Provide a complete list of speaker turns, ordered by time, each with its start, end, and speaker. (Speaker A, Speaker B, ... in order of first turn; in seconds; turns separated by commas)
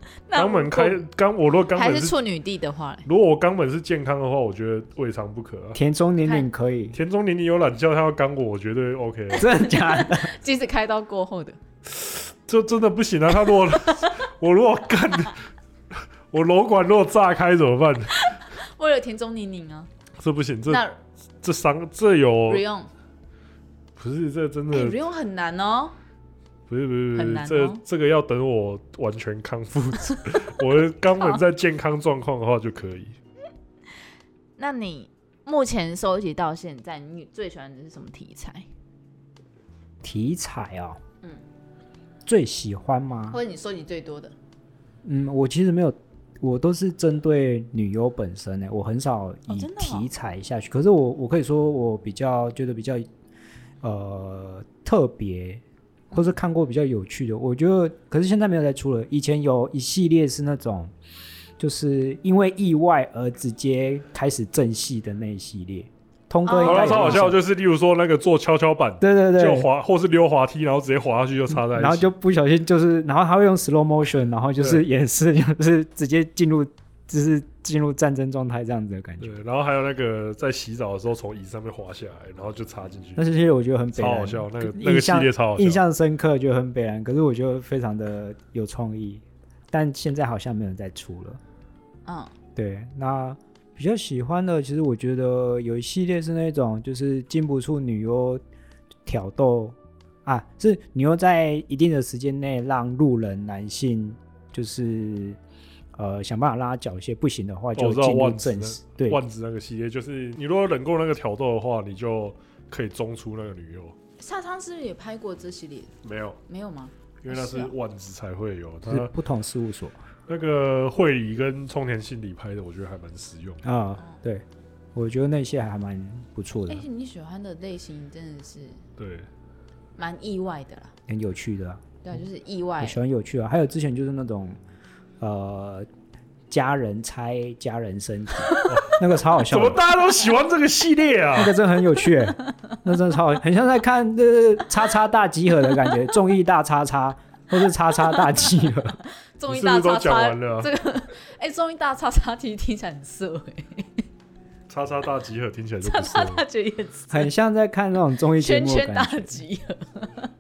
Speaker A: 0.3-1.1, Speaker B: 0.3-2.1, Speaker A: 1.7-3.0, Speaker B: 3.0-5.8, Speaker C: 5.8-7.0, Speaker B: 6.9-9.5, Speaker C: 9.4-10.3, Speaker A: 9.6-11.6, Speaker B: 11.9-15.4, Speaker B: 16.3-18.2, Speaker A: 18.1-19.9, Speaker B: 20.2-20.8, Speaker A: 20.7-20.9, Speaker B: 21.4-22.6, Speaker A: 22.5-22.9, Speaker B: 24.0-25.0, Speaker A: 24.7-25.9, Speaker B: 26.7-33.2, Speaker A: 27.1-27.8, Speaker A: 34.6-38.7, Speaker C: 40.0-41.0, Speaker C: 42.2-43.4, Speaker A: 43.3-44.4, Speaker C: 45.0-53.1, Speaker A: 49.5-50.1, Speaker C: 53.8-60.9, Speaker C: 61.6-67.4, Speaker A: 66.5-67.3, Speaker B: 66.6-72.1, Speaker C: 69.0-69.7, Speaker C: 71.5-79.3, Speaker B: 79.2-83.2, Speaker C: 83.2-91.4, Speaker B: 83.9-85.8, Speaker A: 92.1-92.3, Speaker C: 92.6-98.4, Speaker C: 99.0-105.4, Speaker C: 106.0-109.2, Speaker B: 107.8-114.0, Speaker A: 114.2-117.7, Speaker B: 116.0-116.4, Speaker B: 117.2-119.1, Speaker C: 118.9-120.0, Speaker B: 120.3-123.6, Speaker C: 123.6-126.9, Speaker A: 126.7-128.8, Speaker B: 129.0-129.3, Speaker A: 130.0-130.9, Speaker C: 131.1-131.9, Speaker A: 132.0-133.0, Speaker C: 132.8-134.6, Speaker C: 135.2-135.9, Speaker C: 136.5-139.8, Speaker A: 138.5-138.7, Speaker B: 138.7-141.6, Speaker C: 141.3-149.0, Speaker A: 149.4-154.1, Speaker B: 149.5-150.7, Speaker B: 154.7-156.4, Speaker A: 155.8-157.3, Speaker C: 157.1-159.4, Speaker A: 158.4-160.3